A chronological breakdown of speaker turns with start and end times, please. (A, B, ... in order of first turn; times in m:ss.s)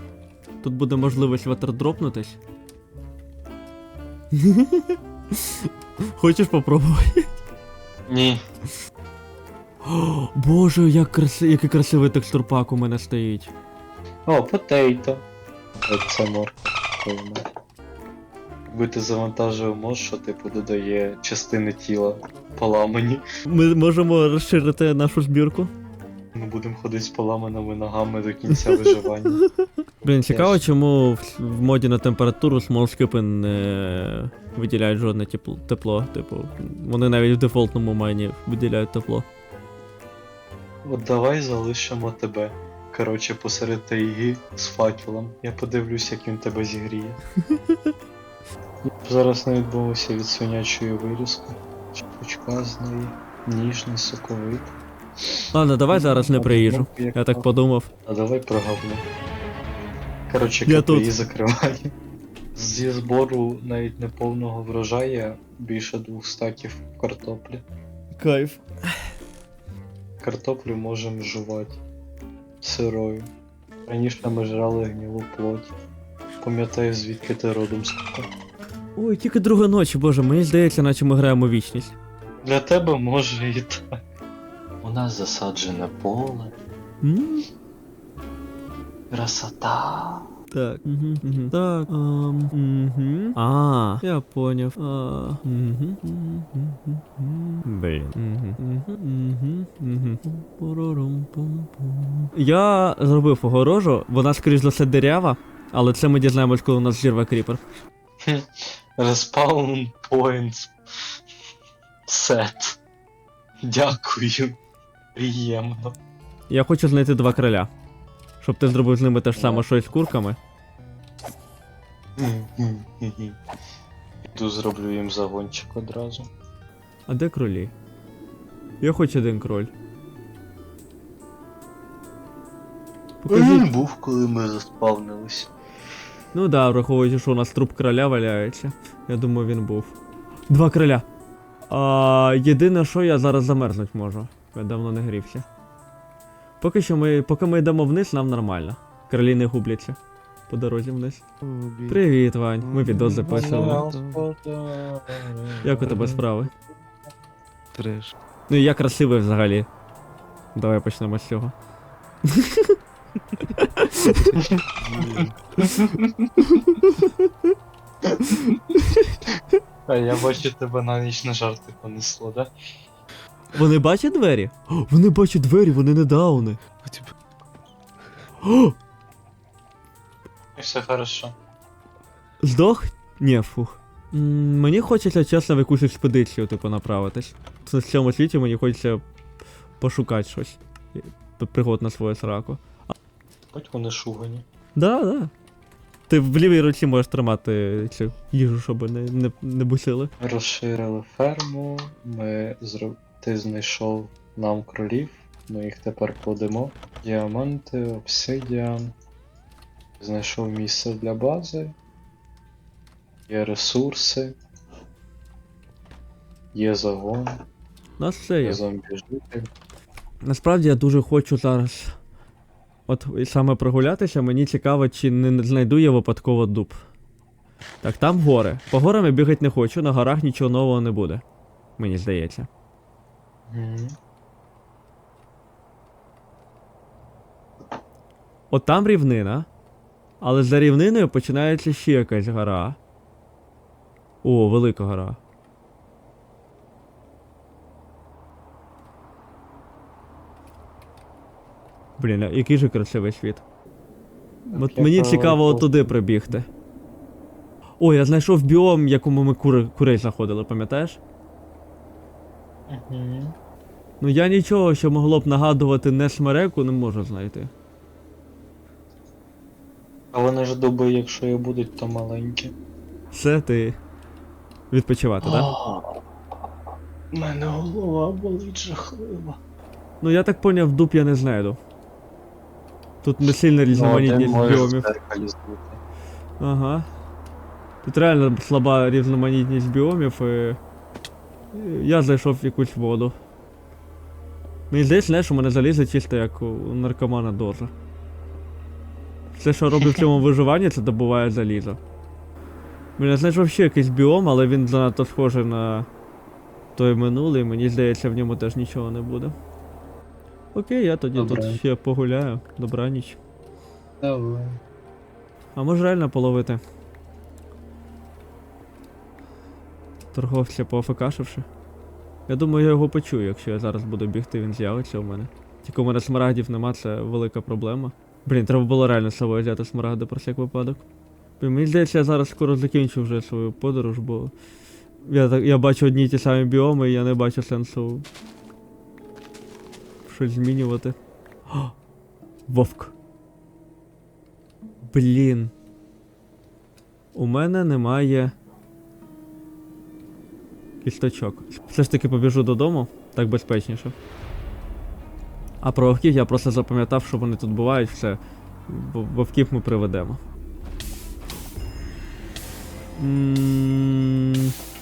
0:00.6-0:02.4 A
0:04.3-0:07.3 A
0:08.1-0:08.4 B
0:09.8-0:13.5 A
0:14.3-0:15.2 B
0:15.9-0:17.4 B
0:18.7-0:23.2 B
0:23.4-0:25.7 A
0:26.3-0:29.4 B
0:30.0-0:39.2 A
0:30.3-0:30.6 B
0:40.8-0:47.2 B
0:48.8-0:57.4 B
0:55.5-0:57.9 A
0:58.0-0:59.0 B
1:00.3-1:01.9 B
1:00.6-1:01.1 A
1:02.5-1:07.6 B
1:08.2-1:08.9 A
1:10.2-1:11.8 B
1:12.6-1:13.3 B
1:13.9-1:15.7 B
1:16.4-1:18.3 B
1:19.0-1:22.0 A
1:22.4-1:23.9 B
1:24.8-1:26.5 B
1:27.0-1:27.5 A
1:29.1-1:30.3 B
1:30.5-1:47.6 A
1:48.2-1:51.1 B
1:52.1-1:52.8 B
1:53.6-1:54.6 B
1:55.2-1:56.0 B
1:56.5-1:57.7 A
1:58.4-2:00.4 A
1:59.3-1:59.6 B
2:02.2-2:03.4 B
2:04.3-2:06.3 B
2:07.1-2:07.7 A
2:08.8-2:09.7 A
2:13.2-2:13.7 A
2:13.3-2:15.5 B
2:16.3-2:20.0 A
2:20.5-2:21.0 A
2:21.7-2:25.4 A
2:26.6-2:30.0 A
2:30.5-2:31.2 A
2:31.4-2:31.9 C
2:31.8-2:33.8 A
2:32.8-2:34.2 C
2:33.1-2:36.1 B
2:35.6-2:36.5 A
2:37.7-2:38.1 C
2:38.5-2:39.7 A
2:40.5-2:41.5 A
2:42.2-2:42.8 A
2:43.4-2:44.4 A
2:44.4-2:46.4 B
2:44.9-2:45.3 C
2:45.2-2:45.8 A
2:46.4-2:47.3 A
2:48.1-2:48.6 B
2:48.3-2:49.2 A
2:49.9-2:52.5 B
2:53.5-2:56.6 A
2:56.8-2:57.1 C
2:58.4-2:58.8 A
3:00.6-3:01.3 B
3:02.4-3:09.0 A
3:09.8-3:12.9 A
3:13.5-3:14.4 B
3:14.8-3:15.3 A
3:16.1-3:20.1 A
3:20.2-3:28.9 B
3:30.0-3:31.7 B
3:33.3-3:34.4 B
3:36.5-3:37.3 B
3:38.0-3:38.6 A
3:38.4-3:39.4 B
3:40.2-3:41.9 A
3:42.9-3:46.8 A
3:47.8-3:51.2 A
3:51.8-3:52.5 A
3:53.5-3:53.9 B
3:58.5-3:59.5 A
4:00.2-4:02.8 A
4:04.2-4:05.2 A
4:12.0-4:13.4 A
4:14.5-4:15.9 B
4:14.5-4:16.5 A
4:17.8-4:21.0 A
4:22.7-4:23.3 B
4:24.0-4:27.5 A
4:30.1-4:32.5 B
4:33.1-4:33.8 A
4:34.7-4:35.5 A
4:35.2-4:36.0 B
4:37.1-4:39.4 B
4:40.0-4:41.6 A
4:43.0-4:44.9 A
4:43.7-4:45.8 B
4:46.4-4:46.8 A
4:47.8-4:50.6 A
4:51.5-4:53.1 A
4:54.7-4:57.7 A
4:59.3-5:01.8 A
5:03.0-5:05.9 A
5:06.8-5:09.3 A
5:10.5-5:13.2 A
5:11.1-5:11.6 B
5:14.0-5:14.6 B
5:15.6-5:16.6 A
5:20.1-5:21.4 A
5:22.3-5:30.8 A
5:31.4-5:34.3 A
5:35.0-5:38.0 A
5:40.0-5:41.0 A
5:42.5-5:42.9 A
5:44.9-5:45.5 A
5:47.1-5:48.3 A
5:50.8-5:53.9 A
5:55.6-6:00.2 A
6:03.0-6:04.5 A